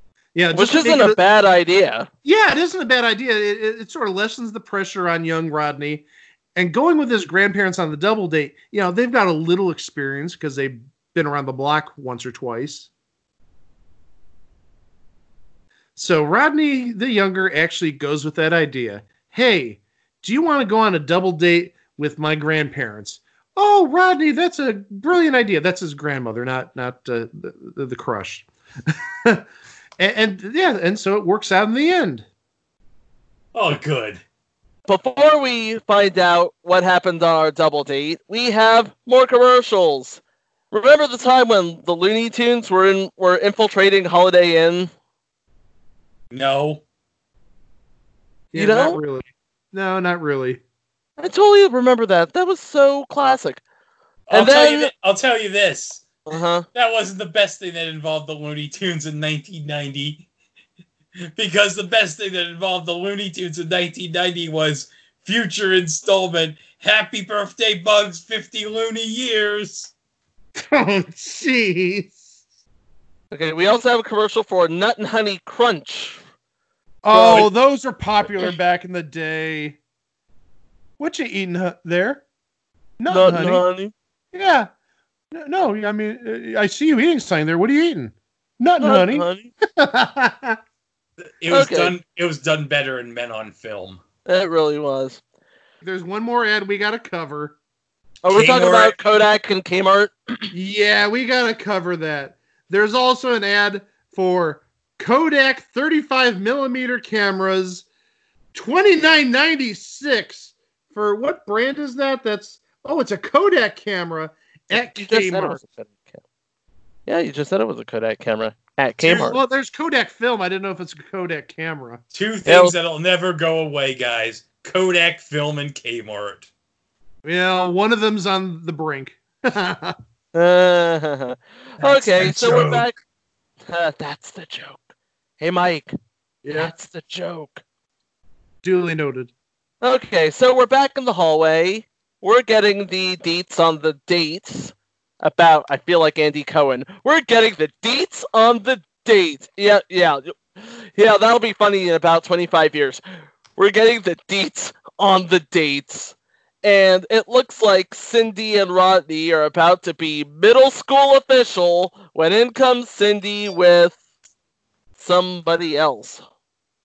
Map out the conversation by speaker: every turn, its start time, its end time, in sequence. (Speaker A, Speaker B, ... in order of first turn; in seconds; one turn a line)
Speaker A: 0.3-1.2
Speaker B: 0.5-2.1
Speaker A: 2.2-12.9
Speaker A: 15.9-29.4
Speaker A: 30.0-32.2
Speaker C: 33.5-34.2
Speaker B: 34.9-40.2
Speaker B: 40.7-44.9
Speaker C: 46.3-46.8
Speaker A: 48.5-50.6
Speaker B: 48.5-49.0
Speaker B: 51.2-53.6
Speaker C: 54.3-56.2
Speaker B: 54.3-54.9
Speaker B: 56.3-56.6
Speaker C: 56.7-60.3
Speaker C: 61.4-69.9
Speaker A: 70.6-72.2
Speaker B: 73.3-76.2
Speaker A: 77.0-79.8
Speaker B: 77.1-77.5
Speaker A: 81.0-82.2
Speaker A: 83.0-83.6
Speaker B: 83.1-83.9
Speaker A: 84.3-84.7
Speaker A: 85.3-90.6
Speaker B: 88.8-89.5
Speaker C: 91.2-94.0
Speaker B: 91.5-91.9
Speaker B: 94.2-95.2
Speaker A: 95.8-97.5
Speaker B: 98.2-100.5
Speaker C: 98.3-98.9
Speaker A: 100.5-107.8
Speaker A: 108.5-115.6
Speaker B: 114.7-116.2
Speaker B: 117.1-119.4
Speaker A: 119.0-122.0
Speaker C: 122.1-126.5
Speaker B: 122.5-122.7
Speaker A: 127.2-129.9
Speaker B: 130.3-132.9
Speaker C: 131.8-132.8
Speaker B: 133.7-134.8
Speaker B: 135.4-135.9
Speaker B: 136.4-137.6
Speaker A: 138.6-139.3
Speaker B: 139.8-153.0
Speaker B: 153.6-163.9
Speaker B: 165.0-166.2